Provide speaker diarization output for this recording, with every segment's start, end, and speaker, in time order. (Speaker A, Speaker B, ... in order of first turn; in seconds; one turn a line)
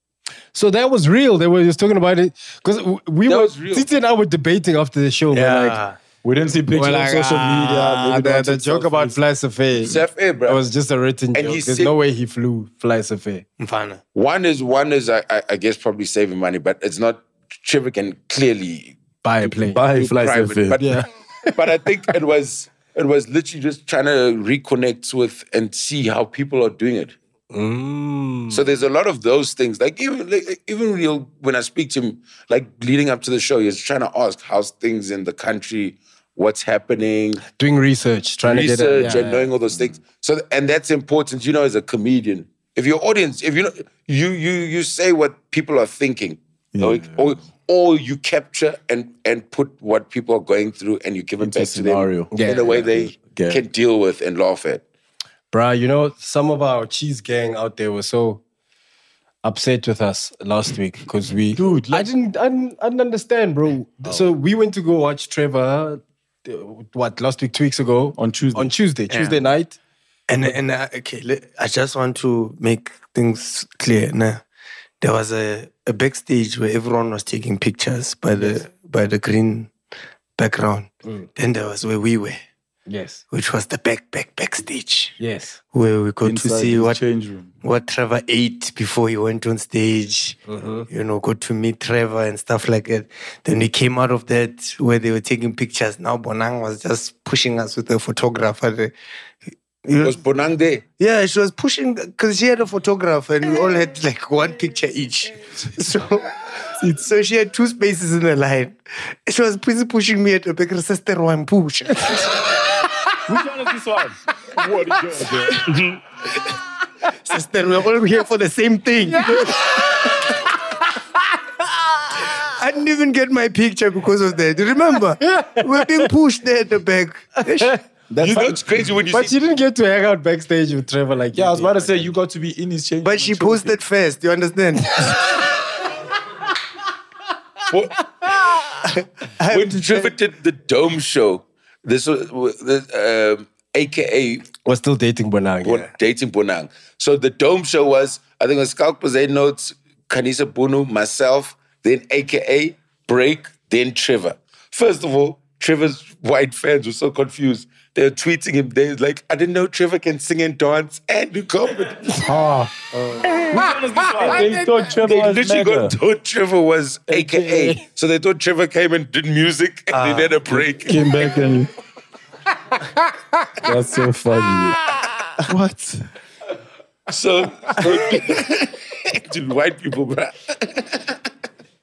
Speaker A: 0.5-5.8
Speaker B: 3.3-3.9
Speaker C: 5.3-6.0
Speaker D: 6.2-9.2
Speaker A: 6.7-13.4
Speaker B: 9.8-10.6
Speaker B: 11.3-11.9
Speaker C: 13.6-14.0
Speaker B: 14.2-19.0
Speaker A: 19.2-20.1
Speaker D: 19.4-20.8
Speaker B: 19.9-21.0
Speaker A: 20.8-21.1
Speaker B: 21.5-27.1
Speaker A: 27.5-28.6
Speaker B: 28.5-37.4
Speaker A: 37.6-39.5
Speaker B: 38.4-54.8
Speaker D: 46.8-47.3
Speaker D: 51.4-53.6
Speaker A: 52.3-52.6
Speaker A: 55.5-58.4
Speaker A: 59.4-69.8
Speaker D: 61.5-62.1
Speaker D: 68.2-68.8
Speaker C: 69.1-69.5
Speaker C: 70.3-74.4
Speaker C: 75.0-79.7
Speaker C: 80.4-82.4
Speaker A: 82.9-83.2
Speaker C: 83.3-85.2
Speaker A: 85.2-85.6
Speaker C: 85.7-87.0
Speaker D: 86.2-87.5
Speaker C: 87.6-98.9
Speaker A: 90.5-90.9
Speaker C: 99.8-100.2
Speaker B: 100.0-100.8
Speaker C: 101.0-112.5
Speaker E: 113.3-116.0
Speaker C: 117.2-120.2
Speaker C: 122.4-127.8
Speaker A: 125.2-125.9
Speaker D: 128.1-128.6
Speaker B: 128.2-129.4
Speaker A: 129.1-132.1
Speaker D: 131.3-133.8
Speaker C: 133.0-135.4
Speaker B: 137.7-138.0
Speaker C: 139.0-140.1
Speaker B: 139.5-144.5
Speaker A: 144.7-145.9
Speaker B: 145.6-162.3
Speaker D: 162.2-163.6
Speaker E: 163.5-164.4
Speaker D: 164.2-165.9
Speaker B: 164.9-171.1
Speaker A: 167.1-167.8
Speaker C: 169.9-170.4
Speaker D: 170.6-171.7
Speaker D: 173.6-174.8
Speaker D: 175.5-176.0
Speaker B: 177.1-181.1